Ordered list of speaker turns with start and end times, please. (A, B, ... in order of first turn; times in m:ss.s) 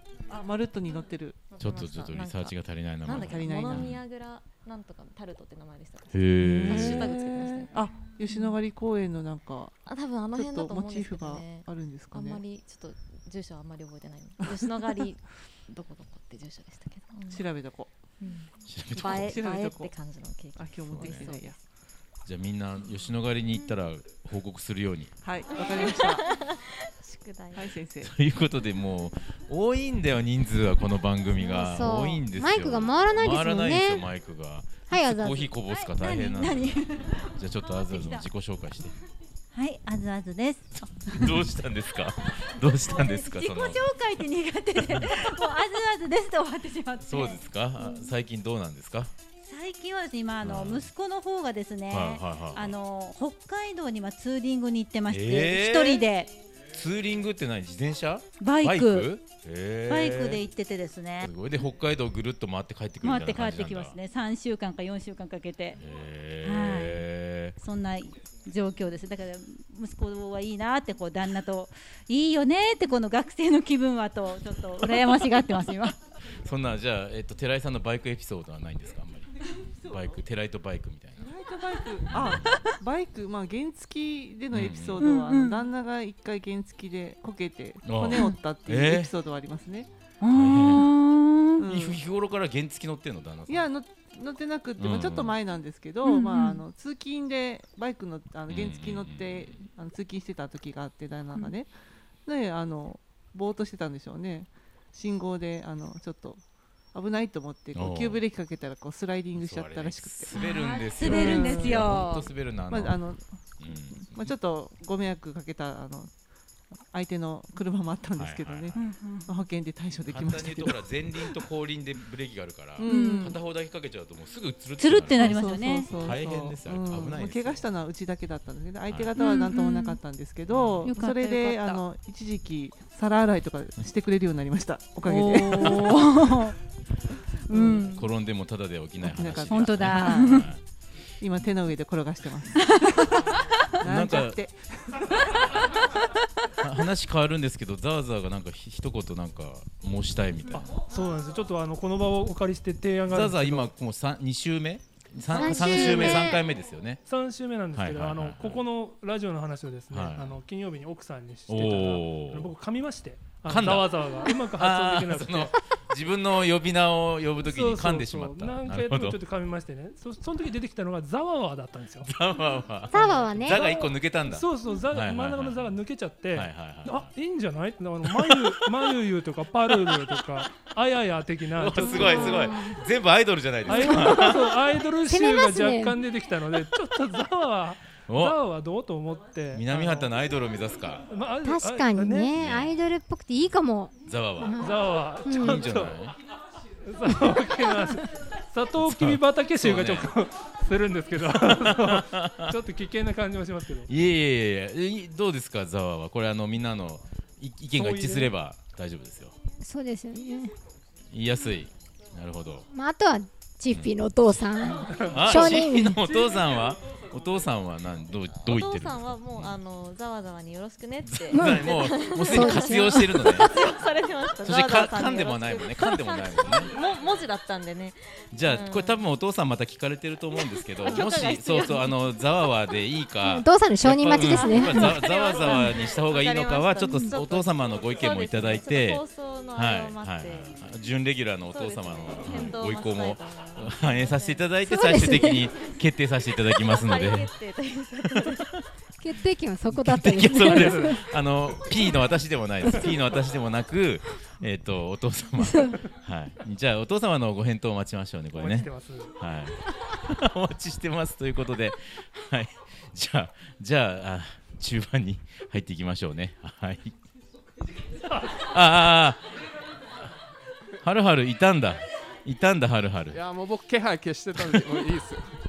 0:00.3-0:01.5 A
0:01.5-0:07.8 B
0:01.6-0:04.0 C
0:03.1-0:03.9 A
0:06.1-0:07.2 C
0:06.4-0:09.8 A
0:09.8-0:17.4 B
0:10.3-0:12.4 A
0:14.4-0:15.0 A
0:17.3-0:17.9 A
0:18.2-0:21.6 B
0:18.6-0:19.4 C
0:18.9-0:19.9 A
0:20.6-0:21.6 A
0:20.8-0:21.3 C
0:22.2-0:25.1 C
0:25.2-0:26.3 A
0:25.6-0:27.7 B
0:27.5-0:28.1 A
0:28.0-0:39.0 C
0:31.4-0:34.0 D
0:34.9-0:35.5 D
0:35.7-0:38.3 E
0:39.5-0:41.5 E
0:41.1-0:43.8 C
0:42.3-0:48.1 E
0:47.0-0:49.1 C
0:49.4-0:56.3 E
0:50.4-0:50.9 C
0:51.9-0:52.8 C
0:55.1-0:56.0 C
0:56.7-1:00.4 C
0:58.4-0:59.1 E
0:59.9-1:01.3 E
1:01.2-1:04.0 C
1:03.0-1:05.8 E
1:05.8-1:07.6 C
1:06.4-1:07.0 E
1:07.6-1:16.0 E
1:16.4-1:19.3 C
1:19.4-1:20.2 A
1:19.9-1:21.3 C
1:21.2-1:29.9 A
1:22.1-1:22.5 C
1:24.5-1:25.0 C
1:25.0-1:25.6 E
1:27.8-1:29.1 C
1:30.2-1:31.6 E
1:30.3-1:30.9 C
1:31.6-1:32.0 A
1:31.6-1:33.7 C
1:33.5-1:41.7 A
1:34.8-1:35.4 C
1:36.0-1:36.6 E
1:38.5-1:39.5 C
1:42.2-1:46.4 A
1:46.9-1:50.3 A
1:47.7-1:48.2 C
1:49.4-1:53.0 C
1:50.3-1:52.3 E
1:51.0-1:52.1 A
1:52.7-1:53.3 A
1:53.6-1:54.3 C
1:53.9-1:56.1 A
1:56.8-2:01.3 A
1:58.2-1:58.8 C
1:58.8-1:59.3 E
2:00.1-2:07.6 C
2:02.8-2:03.4 A
2:02.9-2:03.4 E
2:04.8-2:05.9 E
2:05.2-2:16.0 A
2:09.2-2:10.0 E
2:10.5-2:10.9 C
2:10.8-2:11.8 E
2:15.0-2:16.5 E
2:17.5-2:17.9 E
2:17.5-2:18.0 A
2:17.9-2:20.6 C
2:19.0-2:20.5 A
2:19.5-2:20.5 E
2:21.2-2:25.6 A
2:22.8-2:23.3 E
2:23.8-2:24.4 C
2:26.6-2:30.8 C
2:30.5-2:33.7 F
2:33.1-2:37.0 C
2:35.3-2:36.4 D
2:35.4-2:36.3 F
2:37.0-2:45.5 F
2:37.7-2:38.6 C
2:39.9-2:40.4 C
2:41.5-2:42.5 C
2:43.4-2:49.2 C
2:47.4-2:52.1 F
2:52.0-2:55.7 C
2:52.9-2:53.7 D
2:53.0-3:02.5 F
2:56.3-2:57.1 C
2:58.0-2:58.7 C
2:59.7-3:00.2 C
3:01.6-3:04.6 C
3:01.9-3:02.8 D
3:03.6-3:10.1 F
3:03.7-3:04.3 D
3:05.0-3:06.0 D
3:08.0-3:08.4 C
3:09.5-3:11.1 C
3:11.1-3:12.4 F
3:11.4-3:15.6 D
3:12.3-3:12.7 C
3:14.0-3:16.2 C
3:14.5-3:16.0 F
3:16.8-3:23.9 F
3:18.8-3:20.1 C
3:21.2-3:22.6 C
3:23.9-3:29.4 C
3:27.7-3:28.3 F
3:29.6-3:30.5 D
3:31.1-3:32.7 C
3:32.7-3:36.0 D
3:33.7-3:33.9 C
3:34.8-3:35.4 F
3:34.9-3:39.6 C
3:36.0-3:36.4 F
3:38.3-3:49.0 B
3:41.0-3:43.5 C
3:41.3-3:41.7 D
3:42.3-3:43.2 D
3:44.4-3:46.7 C
3:48.3-4:07.3 C
3:50.6-3:52.0 B
3:53.2-3:55.0 D
3:54.0-4:00.6 B
4:01.5-4:04.5 B
4:04.6-4:05.5 D
4:06.5-4:08.5 B
4:08.1-4:08.5 C
4:09.0-4:11.0 D
4:09.6-4:27.0 C
4:18.3-4:19.1 F
4:28.2-4:29.3 C
4:30.8-4:33.2 C
4:33.1-4:35.3 G
4:34.4-4:34.8 C